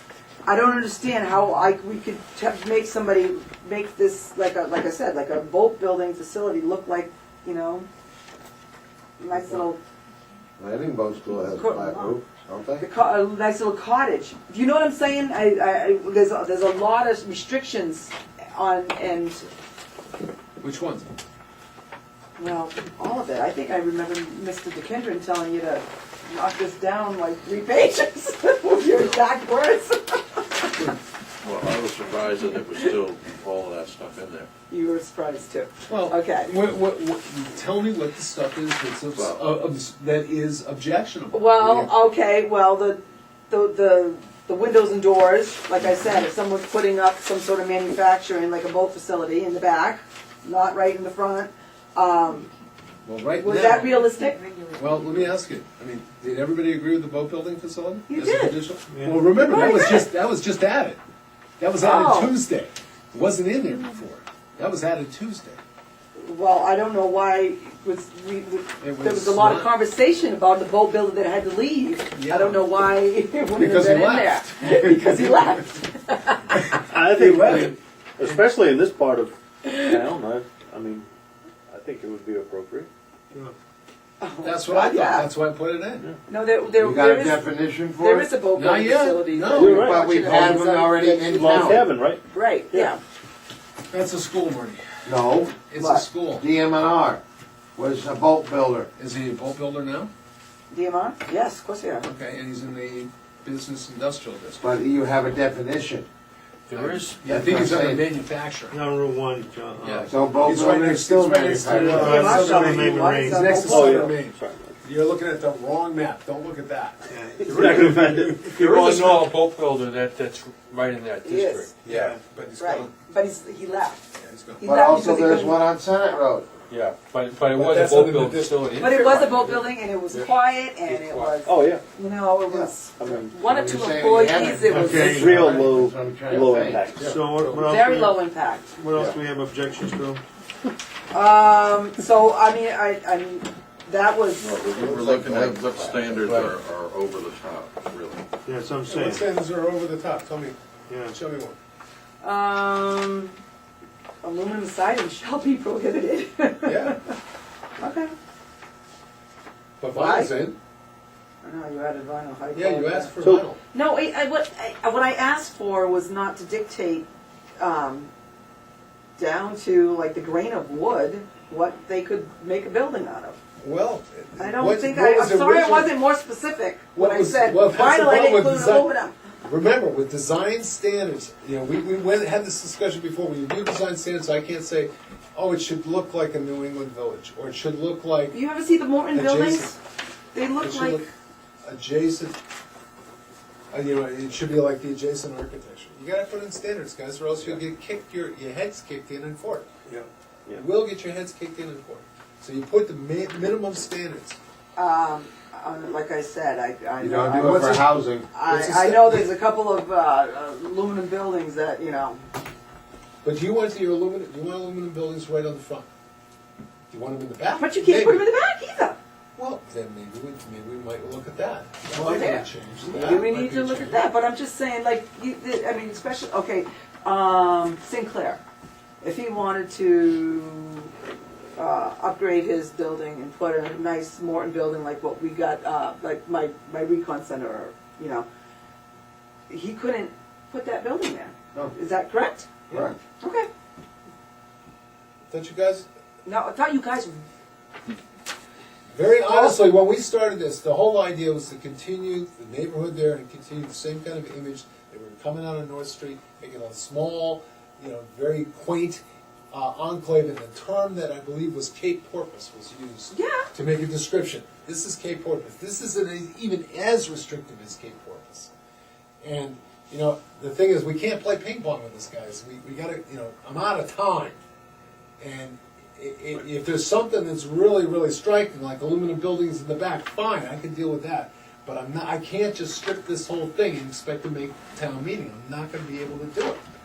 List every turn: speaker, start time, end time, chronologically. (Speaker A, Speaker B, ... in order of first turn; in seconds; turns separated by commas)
Speaker A: 0.5-7.9, Speaker A: 9.2-9.8, Speaker B: 9.3-9.6, Speaker B: 10.6-12.9, Speaker A: 11.5-12.2, Speaker A: 12.8-19.5, Speaker C: 20.6-21.1, Speaker A: 22.4-30.7, Speaker D: 31.4-34.5, Speaker A: 34.7-36.5, Speaker C: 35.9-41.9, Speaker D: 39.1-39.4, Speaker A: 41.3-43.0, Speaker A: 43.5-52.5, Speaker C: 53.0-54.0, Speaker A: 53.4-54.5, Speaker C: 54.7-61.0, Speaker A: 58.1-58.6, Speaker E: 58.9-59.2, Speaker A: 59.4-60.1, Speaker C: 61.6-65.6, Speaker A: 61.8-62.4, Speaker A: 66.2-76.6, Speaker C: 68.8-69.7, Speaker C: 72.2-72.7, Speaker C: 73.5-75.6, Speaker C: 76.7-77.8, Speaker F: 76.9-81.1, Speaker E: 77.2-77.5, Speaker F: 81.7-82.9, Speaker A: 84.2-85.3, Speaker C: 84.4-86.1, Speaker A: 86.3-87.5, Speaker B: 86.8-88.3, Speaker A: 88.0-91.8, Speaker C: 88.5-90.0, Speaker F: 89.5-90.0, Speaker B: 89.8-91.8, Speaker F: 91.2-92.9, Speaker A: 92.3-93.0, Speaker C: 93.9-94.8, Speaker B: 95.0-95.6, Speaker C: 95.7-96.5, Speaker A: 95.8-96.1, Speaker B: 96.4-97.2, Speaker B: 97.8-98.9, Speaker C: 99.0-100.1, Speaker A: 100.7-102.1, Speaker C: 102.0-104.7, Speaker B: 104.6-106.1, Speaker D: 106.7-107.2, Speaker C: 106.7-108.8, Speaker B: 107.2-108.0, Speaker E: 108.7-110.1, Speaker D: 109.8-110.1, Speaker B: 110.1-112.2, Speaker C: 110.3-119.3, Speaker E: 111.7-113.6, Speaker A: 111.9-114.1, Speaker F: 113.6-114.8, Speaker E: 117.2-117.9, Speaker F: 117.4-118.8, Speaker D: 118.6-121.7, Speaker A: 121.2-121.7, Speaker C: 121.8-122.9, Speaker E: 121.9-122.2, Speaker A: 122.6-125.6, Speaker C: 124.2-124.7, Speaker B: 124.6-126.5, Speaker F: 126.7-129.4, Speaker C: 127.5-128.6, Speaker D: 128.6-129.3, Speaker A: 128.8-135.3, Speaker F: 130.9-131.8, Speaker F: 133.0-133.4, Speaker B: 133.4-137.2, Speaker E: 134.6-135.6, Speaker F: 135.0-137.2, Speaker E: 137.0-138.2, Speaker A: 137.6-138.7, Speaker E: 138.8-140.2, Speaker F: 138.9-139.2, Speaker A: 141.1-144.5, Speaker D: 144.4-148.2, Speaker B: 144.8-146.6, Speaker E: 148.5-149.2, Speaker C: 148.9-150.6, Speaker E: 150.9-151.2, Speaker C: 151.1-151.6, Speaker A: 152.2-153.4, Speaker A: 154.2-157.0, Speaker C: 156.6-157.0, Speaker A: 157.8-158.1, Speaker C: 159.8-160.6, Speaker A: 159.9-160.3, Speaker A: 161.4-163.1, Speaker C: 162.5-163.6, Speaker A: 163.7-167.1, Speaker A: 167.6-168.1, Speaker A: 169.2-173.4, Speaker C: 173.6-175.9, Speaker A: 174.4-179.2, Speaker C: 176.9-178.9, Speaker C: 179.4-188.4, Speaker A: 188.3-189.8, Speaker C: 189.1-189.7, Speaker A: 190.3-191.0, Speaker C: 190.6-191.1, Speaker C: 191.6-192.4, Speaker C: 193.7-199.7, Speaker C: 200.6-204.4, Speaker A: 204.8-212.2, Speaker B: 207.0-208.3, Speaker C: 207.5-207.8, Speaker C: 208.5-209.3, Speaker C: 213.2-215.9, Speaker C: 216.9-218.3, Speaker A: 217.6-219.0, Speaker C: 219.4-224.0, Speaker A: 221.9-228.4, Speaker A: 229.0-230.9, Speaker A: 231.6-238.3, Speaker A: 239.5-242.5, Speaker A: 243.2-243.5, Speaker C: 245.3-245.9, Speaker A: 246.2-247.2, Speaker C: 248.9-268.5, Speaker A: 263.1-263.5, Speaker C: 269.2-274.4, Speaker C: 275.2-286.6